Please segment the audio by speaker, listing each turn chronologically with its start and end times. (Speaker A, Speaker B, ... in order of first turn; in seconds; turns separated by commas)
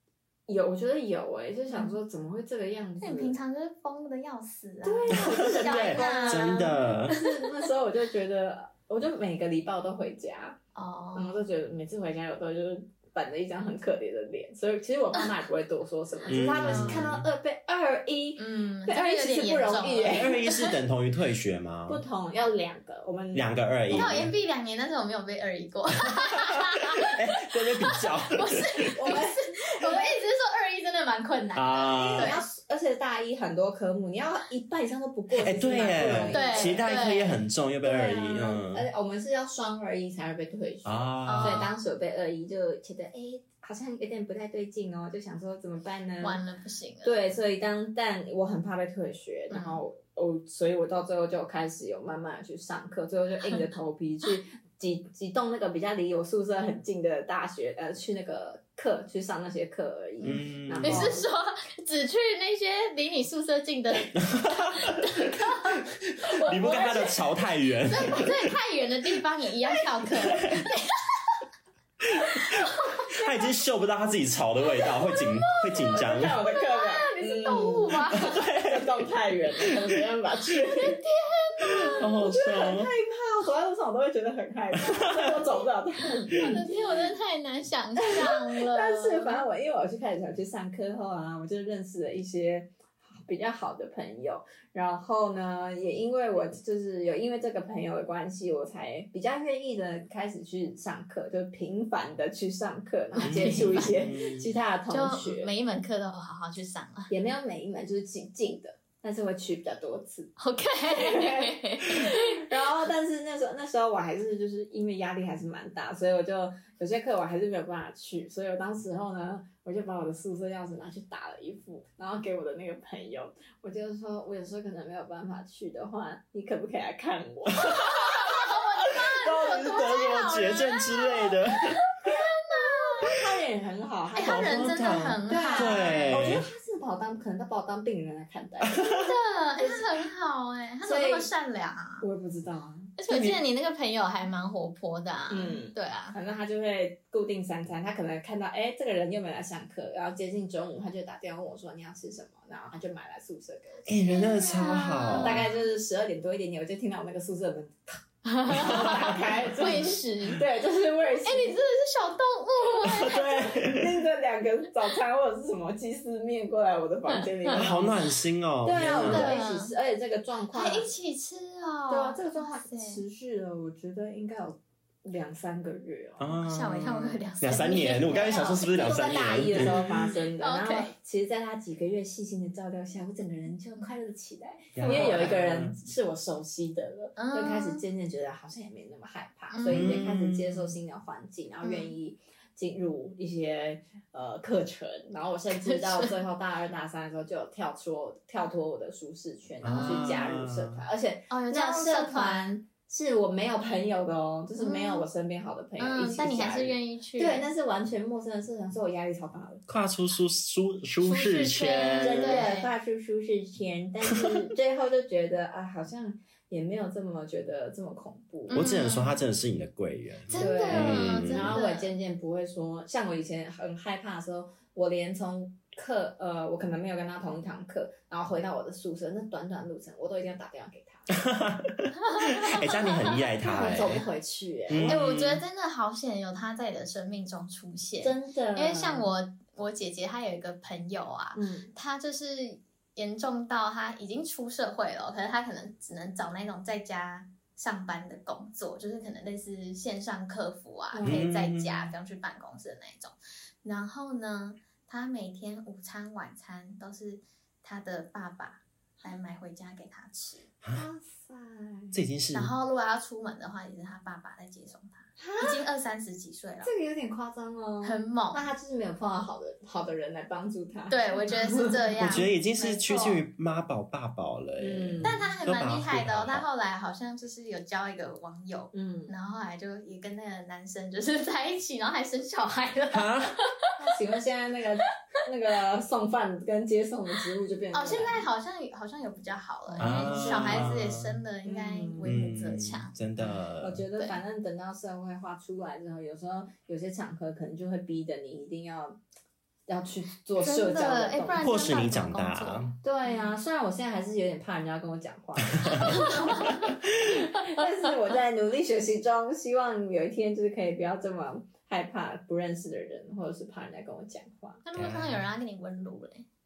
Speaker A: 0.5-3.4, Speaker B: 1.7-1.9, Speaker B: 3.0-7.5, Speaker A: 4.8-10.6, Speaker C: 5.2-7.1, Speaker B: 10.7-11.4, Speaker A: 11.1-20.4, Speaker C: 16.3-17.3, Speaker B: 16.3-17.1, Speaker B: 18.4-20.7, Speaker C: 20.1-22.0, Speaker A: 21.9-24.3, Speaker C: 23.3-24.3, Speaker B: 23.9-32.4, Speaker C: 26.5-29.0, Speaker A: 28.9-30.1, Speaker C: 31.6-32.3, Speaker A: 31.9-36.9, Speaker C: 35.3-38.8, Speaker B: 36.3-37.4, Speaker A: 37.8-46.4, Speaker C: 40.8-41.7, Speaker B: 41.2-41.8, Speaker B: 46.2-47.2, Speaker A: 47.0-61.2, Speaker B: 49.5-49.8, Speaker C: 60.2-61.1, Speaker B: 60.2-67.2, Speaker C: 64.1-68.5, Speaker B: 67.9-71.4, Speaker C: 70.0-70.7, Speaker C: 72.0-76.4, Speaker B: 72.2-73.4, Speaker B: 74.8-78.4, Speaker A: 75.9-81.0, Speaker C: 78.1-78.9, Speaker B: 80.8-82.2, Speaker C: 81.6-82.9, Speaker A: 81.7-87.0, Speaker C: 84.9-85.4, Speaker B: 86.3-89.5, Speaker A: 88.0-105.5, Speaker B: 103.1-104.1, Speaker C: 103.2-104.5, Speaker B: 104.9-107.1, Speaker A: 107.1-110.3, Speaker B: 110.4-112.6, Speaker A: 110.9-128.2, Speaker C: 127.6-131.8, Speaker B: 127.7-133.1, Speaker A: 132.0-138.8, Speaker B: 134.1-136.4, Speaker C: 134.2-136.4, Speaker C: 138.7-139.1, Speaker B: 138.9-142.0, Speaker A: 139.6-139.9, Speaker A: 140.8-141.3, Speaker A: 142.0-143.4, Speaker B: 143.0-146.2, Speaker A: 145.3-153.9, Speaker C: 153.8-155.5, Speaker B: 154.1-155.4, Speaker A: 155.2-161.6, Speaker B: 158.2-160.4, Speaker B: 161.2-163.6, Speaker C: 162.8-164.0, Speaker A: 163.5-167.9, Speaker B: 167.1-167.6, Speaker C: 167.5-169.3, Speaker A: 168.6-170.9, Speaker B: 169.0-169.7, Speaker B: 170.5-173.0, Speaker A: 171.9-176.4, Speaker C: 176.2-180.1, Speaker B: 176.3-180.9, Speaker A: 178.0-209.7, Speaker C: 184.7-185.8, Speaker B: 184.8-185.2, Speaker B: 187.2-187.8, Speaker B: 189.5-190.0, Speaker C: 189.7-190.7, Speaker B: 191.6-191.9, Speaker B: 195.5-196.1, Speaker C: 199.6-200.8, Speaker B: 199.6-200.3, Speaker B: 201.3-202.6, Speaker B: 204.6-205.1, Speaker B: 205.8-207.5, Speaker C: 209.7-212.5, Speaker B: 211.0-212.7, Speaker A: 211.9-218.6, Speaker B: 218.5-219.2, Speaker C: 218.5-221.6, Speaker B: 220.3-221.9, Speaker A: 220.3-231.1, Speaker C: 231.1-234.0, Speaker B: 232.2-234.1, Speaker A: 233.4-235.0, Speaker C: 234.7-235.4, Speaker B: 234.8-260.5, Speaker A: 238.0-239.1, Speaker A: 241.3-241.7, Speaker A: 250.9-251.2, Speaker C: 251.0-251.9, Speaker A: 260.7-261.9, Speaker C: 261.9-262.5, Speaker B: 262.3-266.7, Speaker A: 265.2-265.6, Speaker A: 266.6-272.2, Speaker B: 267.8-268.4, Speaker B: 270.9-273.2, Speaker C: 272.0-276.4, Speaker A: 274.6-275.3, Speaker B: 275.0-283.7, Speaker A: 278.7-279.1, Speaker C: 282.9-283.3, Speaker A: 283.8-288.2, Speaker B: 287.7-292.9, Speaker A: 289.7-290.8, Speaker C: 289.8-291.2, Speaker A: 291.4-292.1, Speaker C: 292.0-293.8, Speaker A: 293.2-299.0, Speaker A: 299.7-301.5, Speaker B: 300.4-302.7, Speaker C: 301.4-302.7, Speaker A: 302.8-314.6, Speaker C: 305.6-305.8, Speaker B: 305.8-306.7, Speaker B: 314.6-316.3, Speaker C: 314.7-315.2